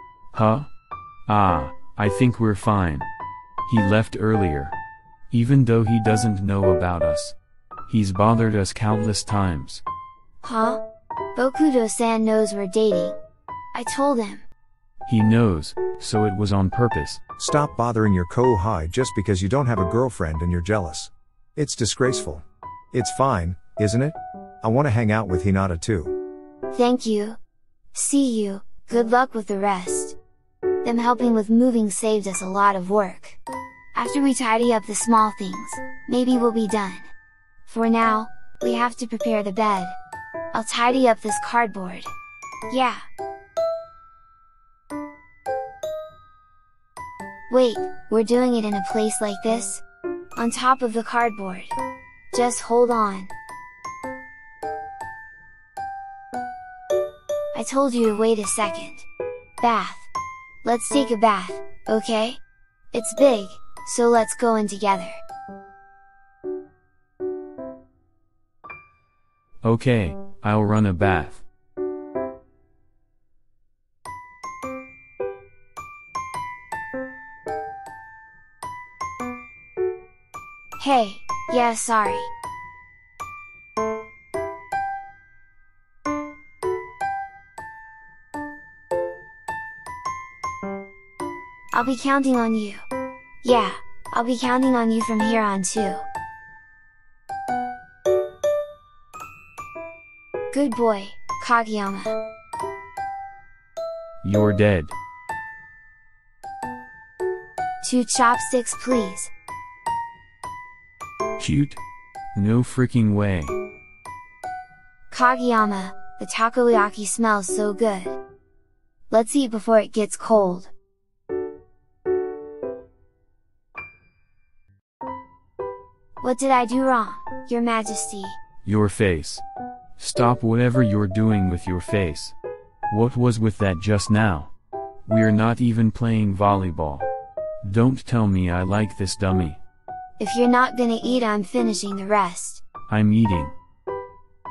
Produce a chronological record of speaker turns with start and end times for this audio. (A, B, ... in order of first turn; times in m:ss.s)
0:00.3-0:00.7 A
0:01.3-0:03.1 A
0:03.7-0:04.8 A
0:05.3-0:07.4 A
0:07.9-0:09.8 A
0:10.4-0:10.8 B
0:11.4-0:13.2 B
0:13.7-0:14.4 B
0:15.0-0:17.2 A
0:17.4-0:26.2 C
0:26.7-0:27.4 B
0:27.9-0:30.2 B
0:30.8-0:33.4 B
0:33.9-0:37.1 B
0:37.7-0:40.0 B
0:40.5-0:42.1 B
0:42.7-0:43.0 B
0:47.5-0:49.8 B
0:50.4-0:51.8 B
0:52.3-0:53.3 B
0:57.5-0:59.1 B
0:59.6-1:00.1 B
1:00.6-1:02.4 B
1:02.9-1:05.2 B
1:09.6-1:11.4 A
1:20.8-1:22.3 B
1:31.7-1:32.8 B
1:33.4-1:36.1 B
1:40.5-1:42.2 B
1:44.2-1:45.0 A
1:47.8-1:49.3 B
1:51.4-1:51.8 A
1:52.4-1:53.5 A
1:55.1-1:58.2 B
1:59.1-2:00.7 B
2:06.2-2:08.4 B
2:08.6-2:09.4 A
2:10.0-2:12.4 A
2:12.9-2:14.5 A
2:15.1-2:17.1 A
2:17.6-2:19.6 A
2:20.2-2:22.6 B
2:22.9-2:23.6 A